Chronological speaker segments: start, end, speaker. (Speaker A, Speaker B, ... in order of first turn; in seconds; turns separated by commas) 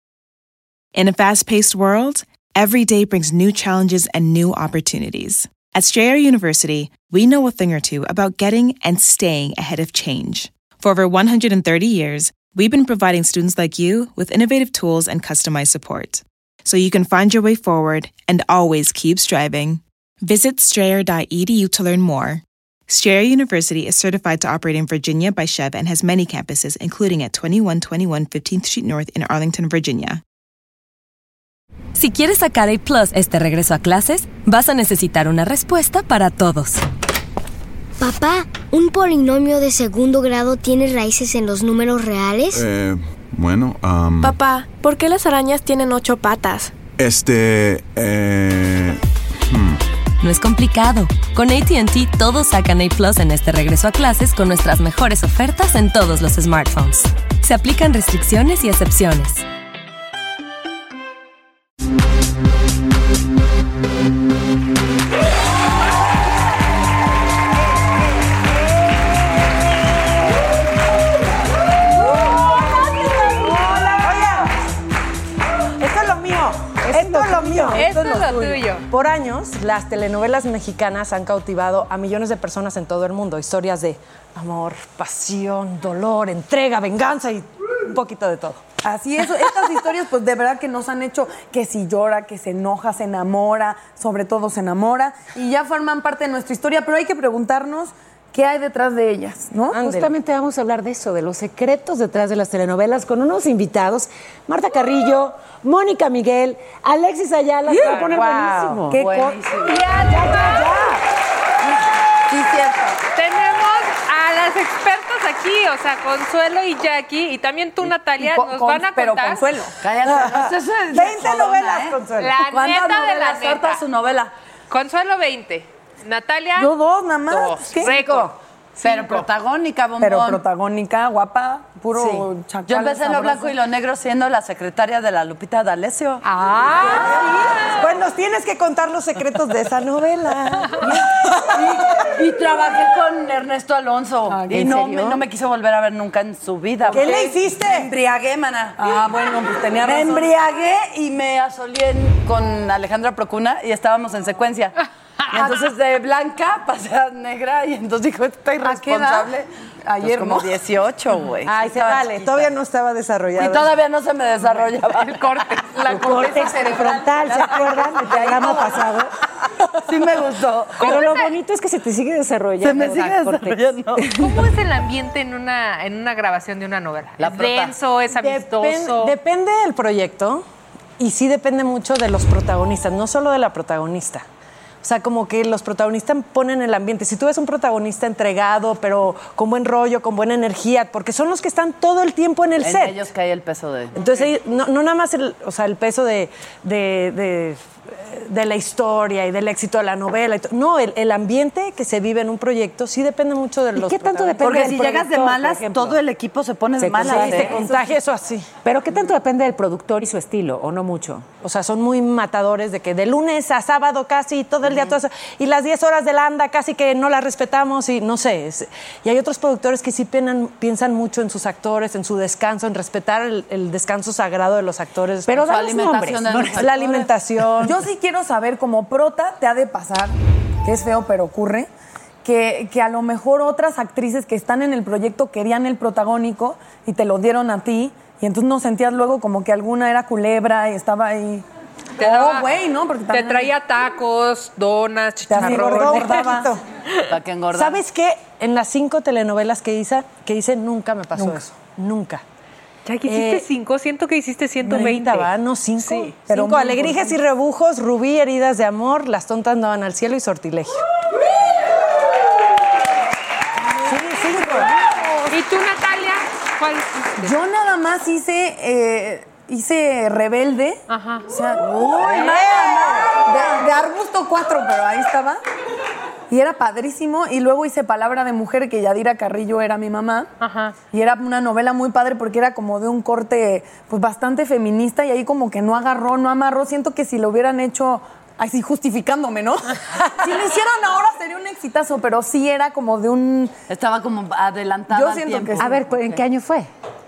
Speaker A: 0.9-30.2, Speaker B: 32.0-36.8, Speaker C: 38.0-42.6, Speaker D: 42.5-44.4, Speaker E: 44.2-46.7, Speaker D: 47.0-49.8, Speaker B: 50.2-59.4, Speaker F: 73.5-74.5, Speaker F: 75.8-88.7, Speaker G: 77.3-78.8, Speaker H: 88.8-100.1, Speaker I: 99.7-109.0, Speaker G: 107.8-108.3, Speaker H: 108.9-109.4, Speaker J: 108.9-109.9, Speaker G: 109.6-110.8, Speaker I: 110.2-110.5, Speaker J: 112.3-113.0, Speaker G: 113.1-119.5, Speaker H: 118.2-119.7, Speaker J: 119.8-124.3, Speaker F: 120.0-122.4, Speaker G: 122.2-123.8, Speaker G: 124.7-126.7, Speaker H: 126.6-128.2, Speaker G: 127.3-129.2, Speaker J: 128.8-130.4, Speaker H: 130.0-133.6, Speaker J: 132.7-136.2, Speaker G: 136.2-137.7, Speaker F: 136.9-141.1, Speaker J: 141.2-149.0, Speaker H: 144.3-145.2, Speaker I: 144.6-144.9, Speaker F: 146.9-147.9, Speaker H: 146.9-147.3, Speaker H: 148.8-150.3, Speaker J: 149.8-154.7, Speaker J: 155.3-159.5, Speaker H: 158.6-159.3, Speaker H: 159.9-160.5, Speaker J: 160.0-162.5, Speaker I: 161.4-163.7, Speaker J: 163.4-165.7, Speaker G: 165.1-167.7, Speaker I: 165.9-168.9, Speaker J: 167.3-168.9, Speaker F: 168.0-169.0, Speaker J: 169.8-171.1, Speaker I: 170.8-174.1, Speaker G: 170.8-171.3, Speaker J: 172.6-174.3, Speaker G: 174.2-179.2, Speaker J: 177.2-177.8, Speaker F: 178.2-180.4, Speaker F: 181.0-184.2, Speaker F: 184.8-193.0, Speaker J: 192.6-194.3, Speaker F: 193.9-205.3, Speaker I: 203.8-205.9, Speaker J: 204.4-207.6, Speaker I: 206.8-207.8, Speaker F: 207.0-208.5, Speaker I: 208.6-211.2, Speaker F: 211.4-225.8, Speaker I: 225.3-226.6, Speaker J: 225.4-227.3, Speaker F: 226.3-227.8, Speaker H: 227.6-231.7, Speaker H: 232.2-241.4, Speaker G: 242.0-242.5, Speaker H: 242.0-243.5, Speaker G: 243.1-246.4, Speaker H: 245.3-246.5, Speaker F: 245.3-246.6, Speaker J: 247.1-247.8, Speaker F: 247.5-252.2, Speaker G: 252.8-255.3, Speaker F: 253.1-253.5, Speaker F: 254.6-260.8, Speaker H: 256.3-257.1, Speaker F: 263.8-264.7, Speaker H: 264.4-264.8, Speaker G: 265.3-267.4, Speaker H: 267.2-275.4, Speaker G: 270.9-271.3, Speaker J: 271.6-273.6, Speaker H: 276.3-280.3, Speaker G: 280.4-280.8, Speaker H: 280.9-293.5, Speaker J: 293.7-296.0, Speaker H: 294.9-295.9, Speaker I: 295.6-296.7